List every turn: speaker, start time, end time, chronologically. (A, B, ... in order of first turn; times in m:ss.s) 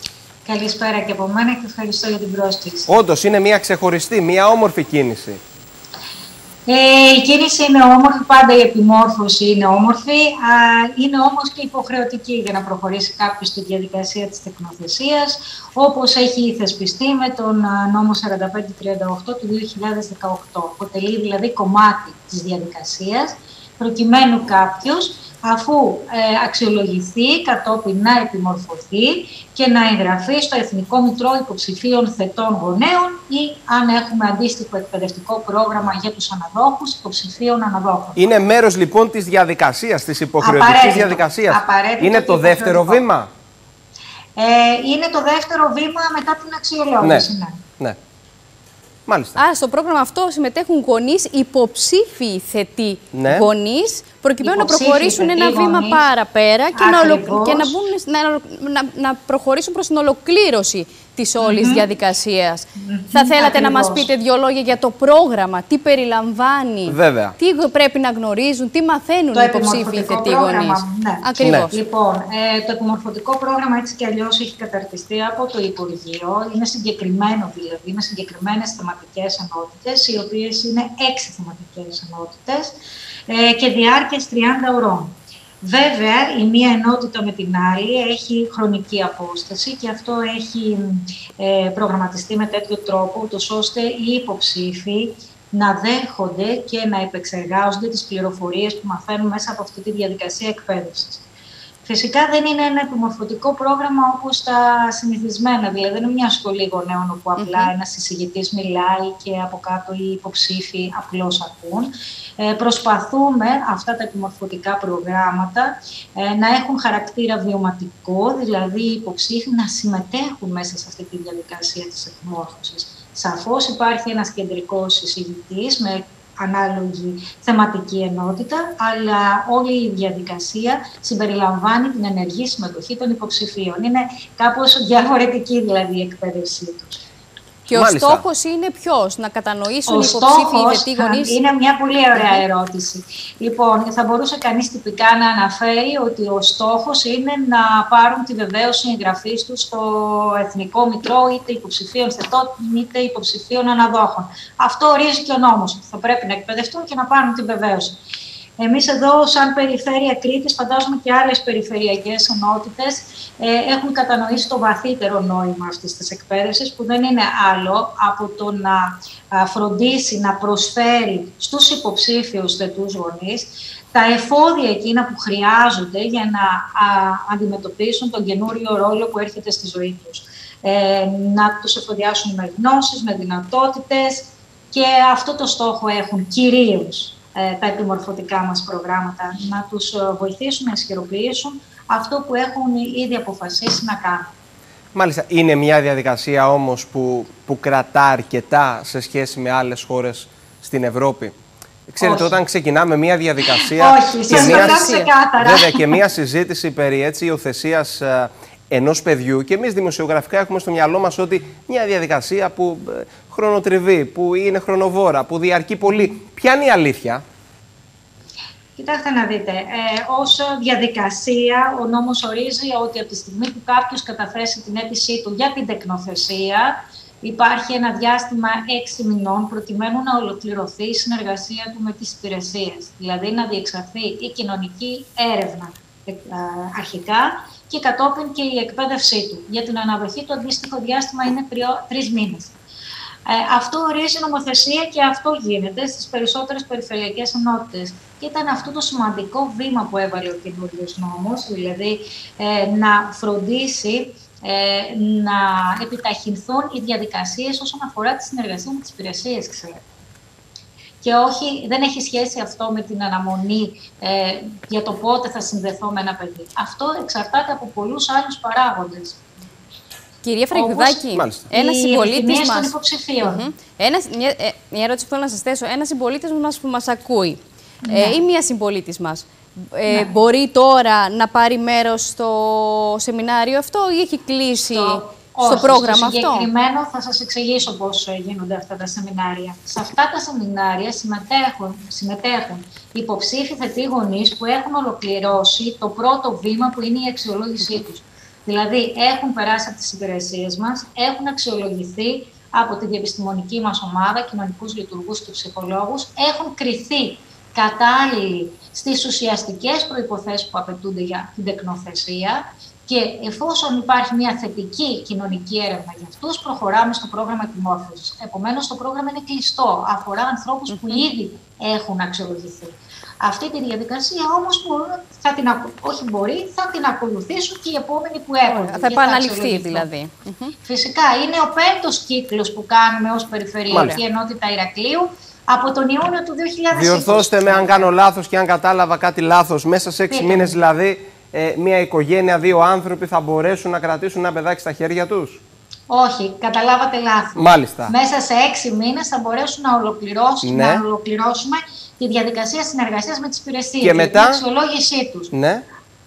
0:00.5-0:02.9 A
0:02.9-0:05.4 B
0:06.7-0:38.2 A
0:38.2-0:43.3 B
0:40.4-0:43.0 A
0:44.4-0:47.6 A
0:47.0-0:47.3 B
0:49.1-0:49.4 B
0:49.4-1:11.8 C
0:53.1-0:53.5 B
0:54.4-0:56.0 A
0:56.7-0:57.8 A
1:01.4-1:01.9 A
1:02.8-1:04.1 A
1:06.9-1:07.4 B
1:09.3-1:41.3 A
1:11.4-1:11.7 B
1:41.8-2:17.0 A
1:47.4-1:47.7 C
2:17.7-2:21.4 C
2:17.7-2:18.2 B
2:19.9-2:38.0 A
2:22.2-2:22.4 C
2:38.6-3:14.3 A
3:14.9-3:21.4 B
3:21.9-3:37.2 B
3:22.0-3:22.4 A
3:23.5-3:25.9 A
3:24.3-3:25.1 C
3:38.8-4:02.6 A
4:03.3-4:19.8 A
4:21.0-4:29.2 A
4:30.2-4:46.5 C
4:30.5-4:33.5 A
4:31.1-4:31.5 B
4:37.8-4:38.2 A
4:39.9-4:40.2 A
4:44.7-5:29.9 A
5:20.7-5:21.1 C
5:28.5-5:30.5 C
5:30.6-5:37.9 A
5:33.7-5:34.0 B
5:36.7-5:45.4 B
5:40.1-5:40.6 A
5:45.9-5:55.3 A
5:47.4-5:47.9 B
5:50.4-5:50.8 B
5:53.8-5:54.4 B
5:55.3-5:55.6 B